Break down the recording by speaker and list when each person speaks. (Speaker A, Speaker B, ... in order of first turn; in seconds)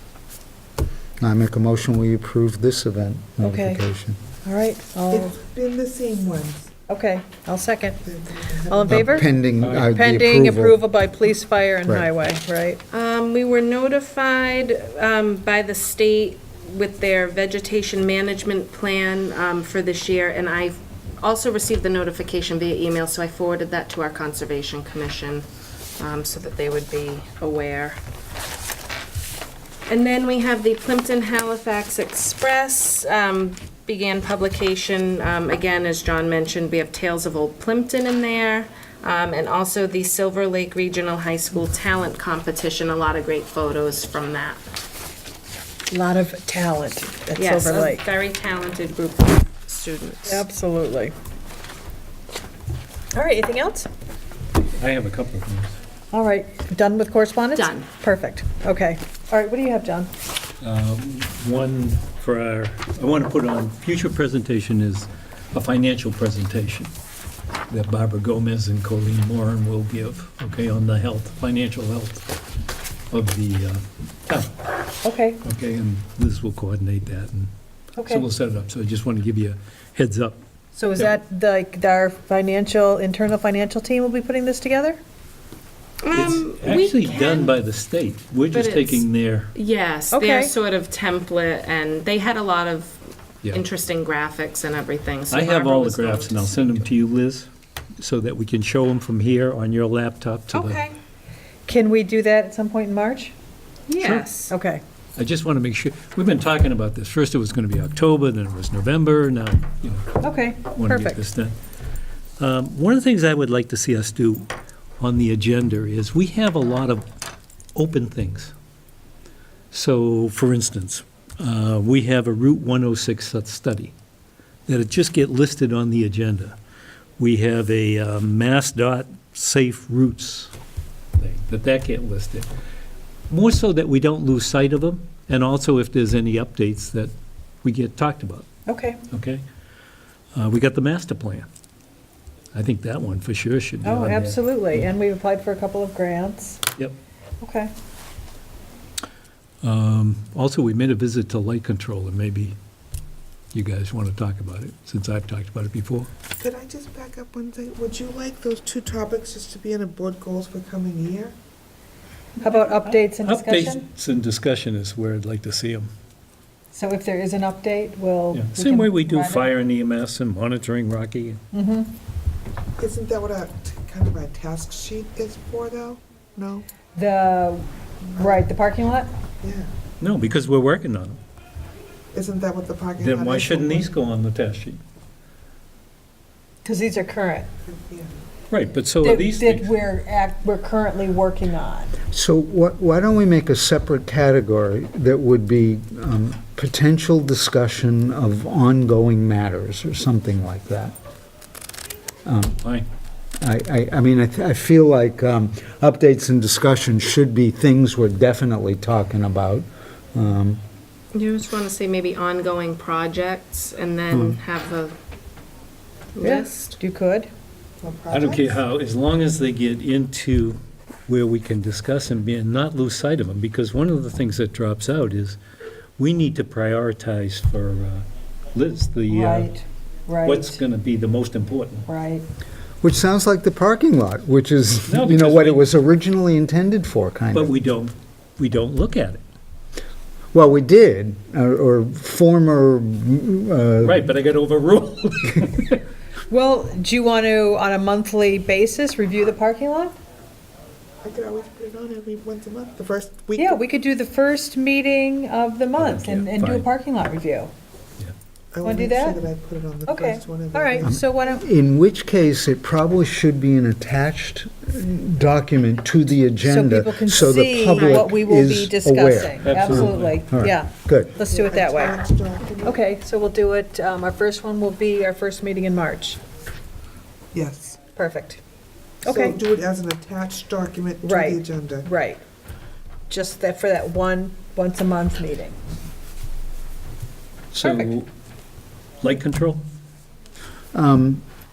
Speaker A: 1.2-4.2, 8.9-10.8, 11.8-12.1, 192.0-200.9, 202.2-202.6, 203.4-210.6, 214.1-214.4, 232.8-237.5, 240.3-244.1, 260.8-271.2, 290.7-291.2
Speaker B: 3.4-3.9, 4.4-5.3, 6.9-8.0, 8.7-9.2, 10.0-12.8, 45.9-48.0, 50.3-51.1, 53.1-53.9, 56.1-60.1, 75.0-75.4, 78.0-78.3, 80.8-85.0, 90.1-90.5, 101.7-103.3, 104.3-104.8, 110.2-111.2, 138.7-139.0, 143.8-146.6, 147.4-147.7, 162.4-163.8, 166.7-169.5, 171.5-171.9, 176.9-179.1, 186.7-187.5, 189.0-191.9, 216.2-217.3, 229.1-230.6, 231.9-232.2, 246.3-249.9, 253.4-257.5, 258.6-259.2, 259.9-261.4, 266.4-272.0, 272.6-276.2, 277.9-278.4, 279.0-279.4, 281.0-282.2, 283.1-285.6, 287.6-287.9
Speaker C: 5.1-6.7, 8.0-9.2, 156.4-161.3, 172.8-176.7, 178.1-178.5, 179.4-179.7, 182.1-183.9, 187.6-188.2, 217.8-218.6, 251.0-253.6, 258.5-260.9, 271.2-272.8, 277.3-277.8, 279.1-281.9
Speaker D: 9.6-10.2, 54.6-55.8, 60.6-66.9, 67.7-72.2, 73.1-74.6, 75.4-80.4, 86.1-89.5, 95.3-100.8, 105.2-111.5, 112.4-117.0, 117.8-118.5, 119.7-123.9, 124.7-126.6, 127.2-130.5, 131.2-132.5, 133.3-137.1, 137.6-138.5, 139.1-139.4, 140.3-141.5, 142.5-144.9, 149.6-152.6, 153.5-156.1, 162.5-165.9, 168.3-171.4, 180.0-181.2, 183.0-184.8, 188.5-189.7, 218.1-225.4, 226.0-229.5, 230.2-231.9, 234.9-235.7, 237.3-239.2, 243.8-245.8, 255.8-256.7, 269.4-270.4, 287.5-288.1, 289.0-289.6
Speaker E: 12.9-25.5, 26.0-28.0, 29.9-44.6, 47.4-50.5, 57.5-57.9, 86.0-87.5, 88.5-96.9, 100.5-101.0, 103.9-104.5, 211.1-215.0, 216.2-216.8, 267.7-268.0